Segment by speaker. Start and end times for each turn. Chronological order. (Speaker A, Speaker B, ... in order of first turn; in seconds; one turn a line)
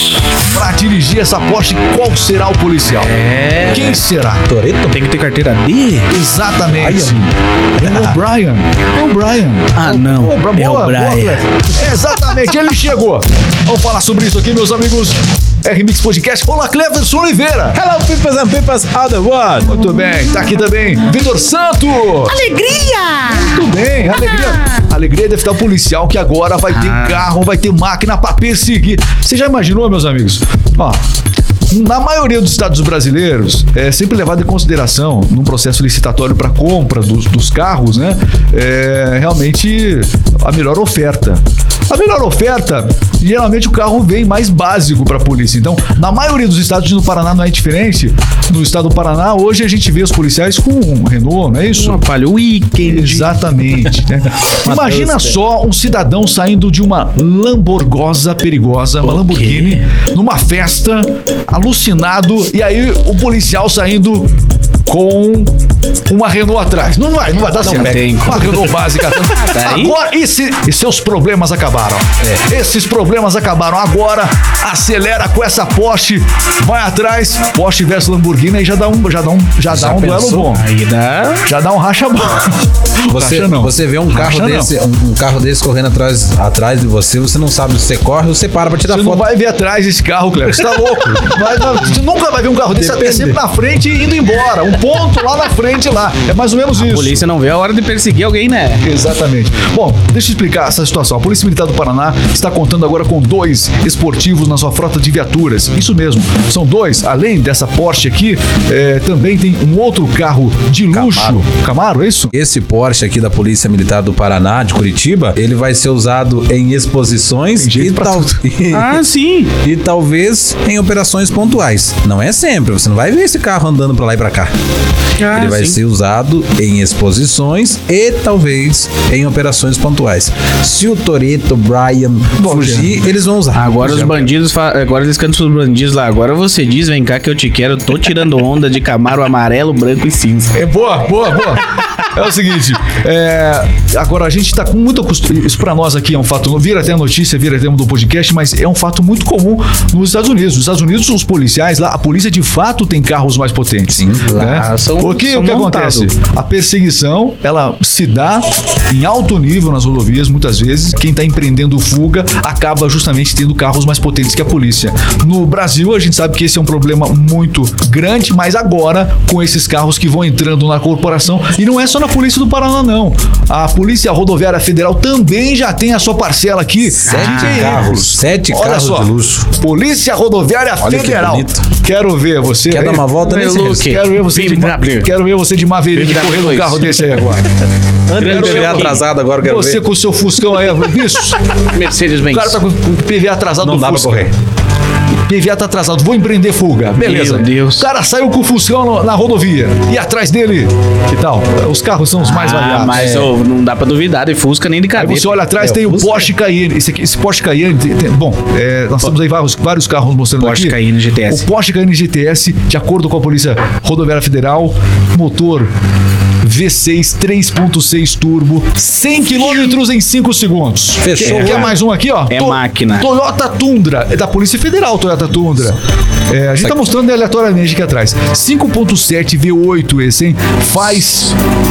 Speaker A: 0.4-3.1
Speaker B: 3.0-4.0
Speaker A: 3.6-4.5
Speaker C: 4.5-5.0
Speaker B: 4.9-6.1
Speaker A: 6.1-17.8
Speaker C: 6.8-8.2
Speaker B: 9.7-11.4
Speaker C: 9.8-10.2
Speaker C: 17.7-19.8
Speaker A: 19.6-22.5
Speaker B: 22.3-23.3
Speaker A: 23.2-31.0
Speaker B: 26.7-27.3
Speaker A: 31.7-52.0
Speaker B: 51.7-53.3
Speaker A: 52.8-64.3
Speaker C: 54.6-55.4
Speaker B: 59.0-59.9
Speaker A: 64.8-65.5
Speaker A: 66.1-80.7
Speaker B: 67.5-69.9
Speaker C: 67.7-67.9
Speaker C: 79.7-80.5
Speaker B: 80.5-81.4
Speaker A: 81.4-84.7
Speaker C: 83.1-89.2
Speaker A: 88.9-97.2
Speaker C: 92.7-93.4
Speaker B: 96.7-98.8
Speaker A: 98.8-112.3
Speaker C: 110.9-111.4
Speaker C: 112.3-119.0
Speaker A: 117.6-118.4
Speaker B: 118.7-119.5
Speaker C: 119.6-124.5
Speaker B: 125.2-125.8
Speaker C: 125.3-134.2
Speaker A: 132.3-133.0
Speaker B: 133.5-140.5
Speaker A: 133.8-134.3
Speaker A: 140.5-183.1
Speaker C: 153.9-154.4
Speaker B: 154.3-156.1
Speaker C: 177.0-179.5
Speaker B: 177.1-177.9
Speaker C: 180.8-181.6
Speaker C: 182.7-183.9
Speaker B: 183.2-185.1
Speaker A: 183.6-187.5
Speaker B: 185.9-187.3
Speaker C: 188.1-189.8
Speaker B: 188.2-189.0
Speaker A: 188.2-191.5
Speaker B: 191.5-192.6
Speaker A: 192.3-194.3
Speaker C: 193.6-194.3
Speaker A: 195.2-203.2
Speaker B: 197.0-197.9
Speaker B: 202.2-205.3
Speaker C: 202.9-203.3
Speaker A: 205.0-210.8
Speaker C: 205.6-206.3
Speaker B: 210.4-211.4
Speaker A: 211.3-215.7
Speaker A: 216.4-231.3
Speaker C: 221.0-221.7
Speaker B: 221.2-221.7
Speaker B: 222.3-223.1